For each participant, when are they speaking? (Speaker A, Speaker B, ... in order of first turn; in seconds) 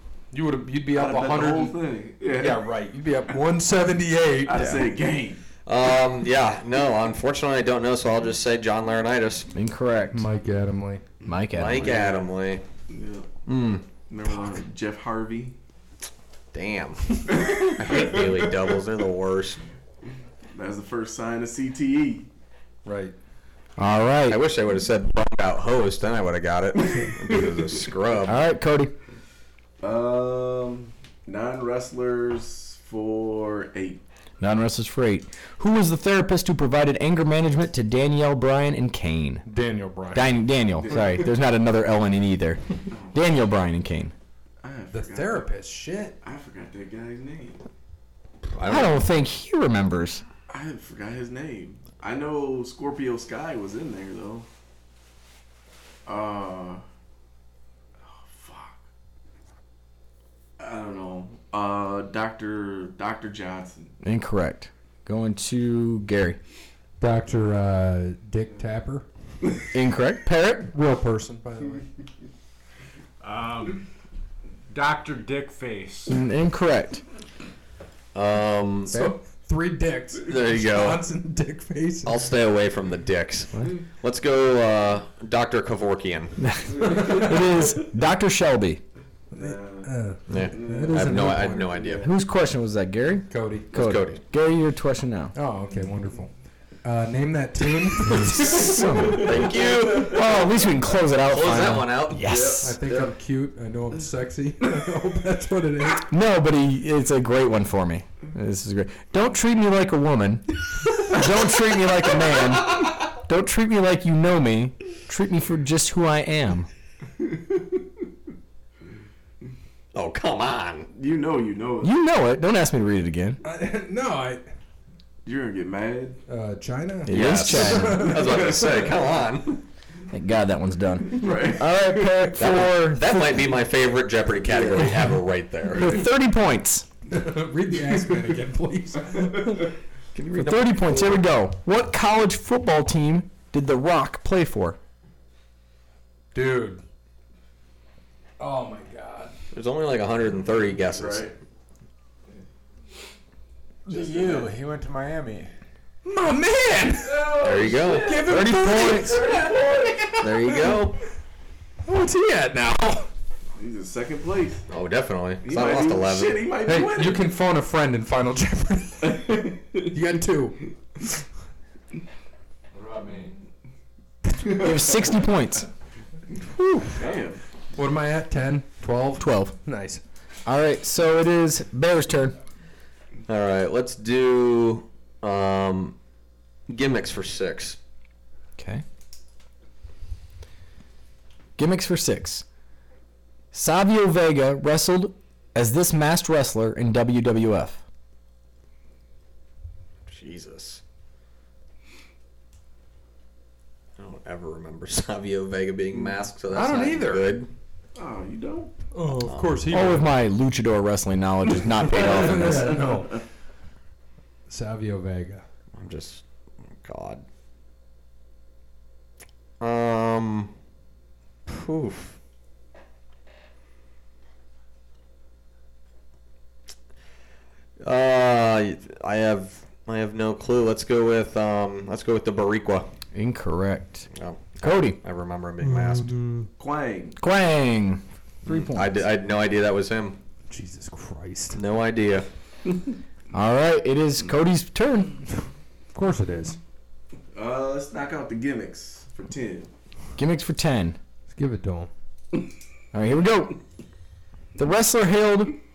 Speaker A: 0.3-1.8, 2.3-4.8, 10.1-11.1, 22.8-23.1, 39.5-40.4, 44.9-46.2, 67.0-69.0, 70.7-71.8, 78.9-82.2, 86.8-87.2, 89.3-91.8, 93.3-93.7, 95.3-96.3, 96.8-99.0, 102.6-106.1, 123.4-124.5, 126.3-128.8, 137.1-139.6, 146.3-146.8, 148.4-149.3, 156.0-160.9, 161.8-163.1, 166.7-170.6, 177.8-180.0, 206.5-207.4, 208.9-210.2, 211.9-213.2, 214.5-215.4, 235.6-236.5, 240.5-241.6, 245.9-246.6, 251.3-251.9
Speaker B: 0.9-2.6, 4.4-5.4, 11.8-12.1, 12.9-13.3, 14.1-15.5, 17.3-18.4, 20.5-22.3, 29.8-34.0, 40.8-41.3, 42.9-43.2, 44.6-45.5, 46.2-47.6, 50.5-54.5, 56.0-56.8, 58.0-58.8, 60.6-63.9, 86.9-87.4, 89.3-91.9, 98.8-100.5, 102.2-103.1, 120.9-121.9, 125.2-126.2, 128.1-129.0, 131.1-131.8, 134.4-135.1, 150.8-151.3, 153.9-154.5, 157.1-159.9, 163.6-164.7, 165.4-167.2, 177.0-177.4, 207.9-208.7, 236.6-237.2, 247.3-249.7
Speaker C: 5.7-9.5, 11.5-12.6, 13.5-13.8, 16.5-19.6, 24.3-28.4, 48.5-49.0, 78.1-79.0, 80.2-81.0, 82.0-86.5, 90.3-92.1, 93.7-94.2, 99.1-100.2, 101.2-102.4, 119.9-120.9, 127.1-129.6, 132.3-136.0, 140.1-141.2, 149.5-151.3, 157.4-159.4, 160.2-161.0, 164.7-166.4, 183.3-185.9, 186.7-187.8, 200.1-200.8, 204.0-207.5, 209.2-209.6, 215.7-216.2, 216.8-217.2, 219.6-220.5, 221.5-222.2, 227.8-232.9, 234.1-236.1, 238.5-240.2, 241.5-242.3
Speaker D: 9.5-10.2, 11.2-12.1, 23.8-24.4, 28.2-28.9, 34.4-39.4, 40.1-44.1, 48.6-50.2, 64.0-66.4, 69.7-70.7, 76.1-77.0, 86.4-88.8, 92.0-95.3, 98.0-102.7, 106.0-116.7, 121.8-123.4, 127.0-128.2, 130.1-133.6, 135.7-136.9, 140.3-144.8, 174.5-175.7, 179.2-179.5, 180.4-182.3, 188.6-188.8, 191.6-192.4, 193.5-197.8, 209.7-212.8, 233.1-234.1, 234.6-235.0, 237.2-239.1, 243.3-245.2, 250.2-251.0, 252.9-253.6, 254.6-255.6
Speaker E: 73.2-73.9, 74.7-76.2, 153.9-155.5, 172.7-173.4